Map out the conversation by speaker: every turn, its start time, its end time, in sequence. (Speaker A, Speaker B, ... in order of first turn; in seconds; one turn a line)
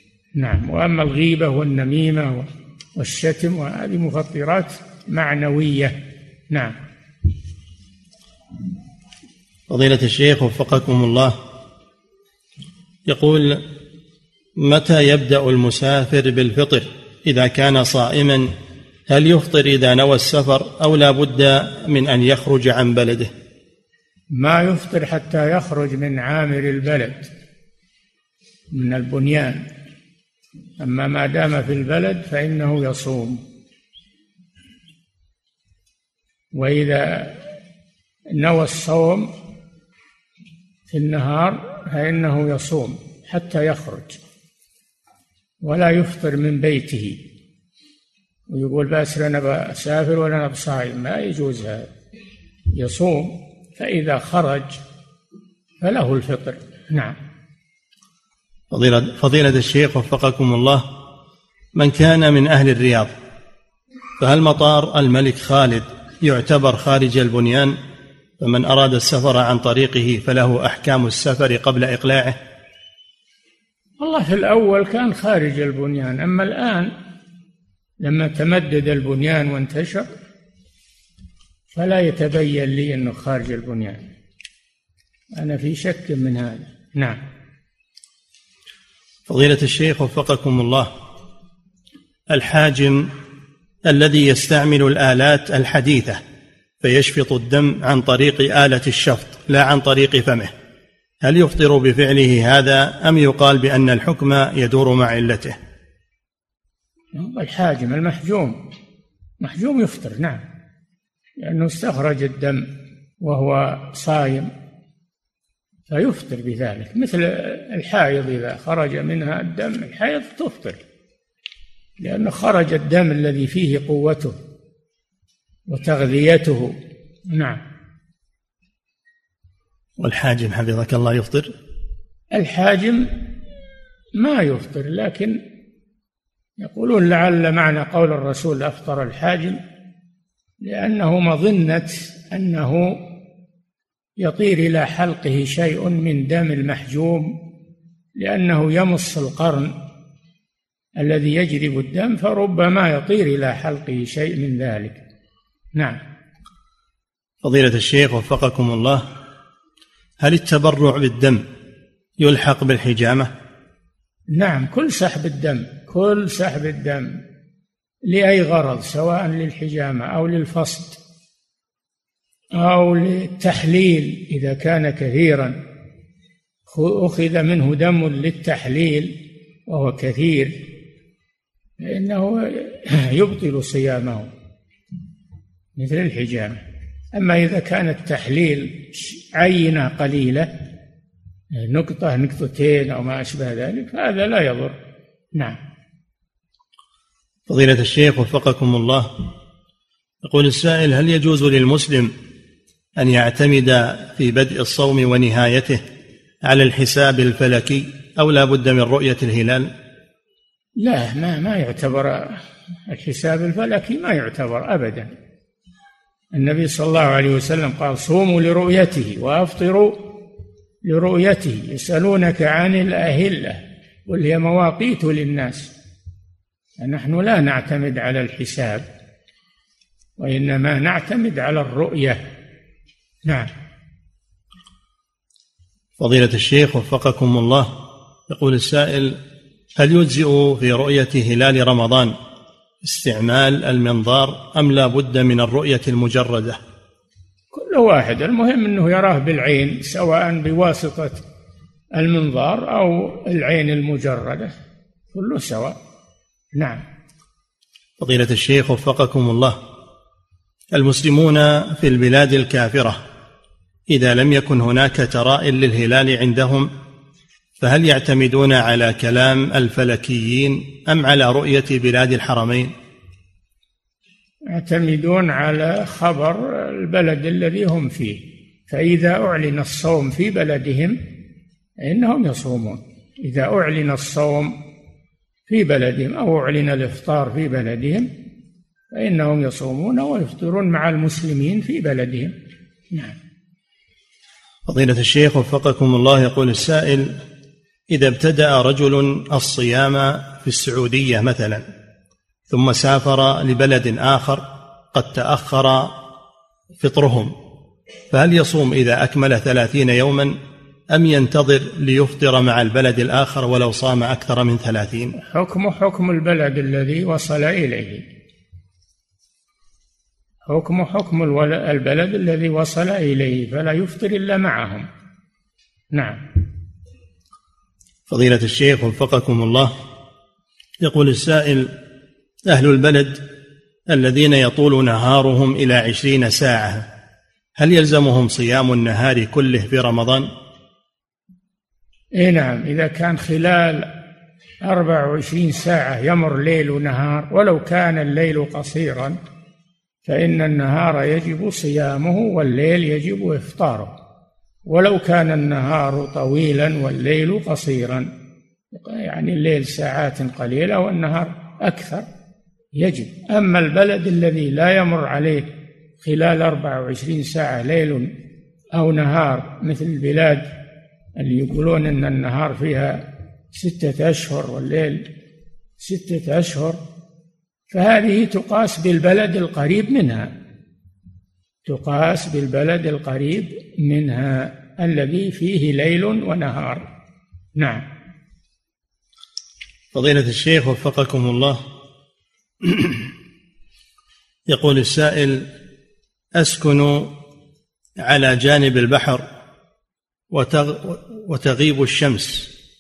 Speaker A: 0.4-6.0
Speaker A: 6.5-6.8
Speaker B: 9.7-11.3
Speaker B: 13.1-13.6
Speaker B: 14.6-18.5
Speaker B: 19.1-23.3
Speaker A: 24.3-27.3
Speaker A: 28.7-29.6
Speaker A: 30.8-33.4
Speaker A: 36.5-37.4
Speaker A: 38.4-39.3
Speaker A: 40.9-44.2
Speaker A: 45.6-47.2
Speaker A: 48.5-51.9
Speaker A: 52.8-54.8
Speaker A: 55.8-57.2
Speaker B: 58.7-60.9
Speaker B: 61.8-63.1
Speaker B: 64.2-67.8
Speaker B: 68.4-72.4
Speaker A: 74.0-76.9
Speaker A: 78.0-80.1
Speaker A: 81.7-84.0
Speaker A: 85.3-87.2
Speaker B: 89.3-90.9
Speaker B: 92.3-93.1
Speaker B: 93.9-96.2
Speaker B: 96.8-100.5
Speaker B: 101.2-105.6
Speaker A: 107.1-108.6
Speaker A: 109.4-110.4
Speaker A: 111.4-112.7
Speaker A: 113.2-114.5
Speaker A: 115.9-120.8
Speaker A: 122.0-124.4
Speaker A: 125.7-126.8
Speaker A: 127.3-127.6
Speaker B: 130.0-131.5
Speaker A: 132.3-133.2
Speaker A: 134.2-135.4
Speaker A: 136.6-139.6
Speaker A: 140.6-143.0
Speaker A: 144.2-147.3
Speaker A: 148.2-149.7
Speaker A: 151.0-155.0
Speaker B: 157.4-159.0
Speaker B: 160.2-161.4
Speaker B: 162.2-163.3
Speaker A: 164.3-167.2
Speaker A: 168.1-171.0
Speaker A: 172.6-175.6
Speaker A: 176.7-179.2
Speaker A: 179.7-180.6
Speaker A: 181.8-184.3
Speaker A: 185.8-186.6
Speaker A: 187.1-190.5
Speaker A: 191.5-194.8
Speaker B: 197.5-199.1
Speaker B: 200.2-202.1
Speaker B: 203.0-205.8
Speaker B: 206.4-209.7
Speaker A: 210.8-215.1
Speaker A: 216.3-220.1
Speaker A: 220.8-225.7
Speaker A: 226.8-228.9
Speaker A: 230.2-232.2
Speaker A: 233.2-233.5
Speaker B: 236.0-237.7
Speaker B: 238.3-239.2
Speaker B: 239.8-242.2
Speaker B: 242.8-246.6
Speaker A: 247.5-251.2
Speaker A: 252.0-254.5
Speaker A: 255.1-255.8
Speaker A: 256.6-256.8
Speaker B: 258.0-259.6
Speaker B: 260.7-263.0
Speaker B: 263.9-266.7
Speaker B: 267.6-272.7
Speaker A: 274.5-281.0
Speaker A: 281.8-284.6
Speaker A: 285.5-288.1
Speaker A: 288.9-292.4
Speaker A: 292.9-293.2
Speaker B: 294.7-297.2
Speaker B: 297.9-301.6
Speaker B: 302.5-305.9
Speaker B: 306.8-307.3
Speaker B: 308.1-310.4
Speaker B: 310.9-315.1
Speaker A: 315.2-318.1
Speaker A: 320.4-324.9
Speaker A: 325.9-326.2
Speaker B: 328.1-329.7
Speaker B: 330.8-331.7
Speaker B: 332.5-333.2
Speaker B: 333.9-336.9
Speaker B: 337.6-340.3
Speaker A: 342.2-343.9
Speaker A: 344.6-349.2
Speaker A: 350.1-353.9
Speaker A: 354.7-358.1
Speaker A: 358.7-362.1
Speaker A: 362.8-365.5
Speaker A: 366.0-368.1
Speaker A: 368.7-370.5
Speaker A: 371.2-375.1
Speaker A: 375.8-376.8
Speaker A: 377.7-380.3
Speaker A: 381.6-386.9
Speaker A: 387.6-387.8
Speaker B: 389.9-391.6
Speaker B: 392.6-393.1
Speaker B: 394.5-395.5
Speaker B: 396.4-397.1
Speaker B: 398.0-399.2
Speaker B: 400.3-402.5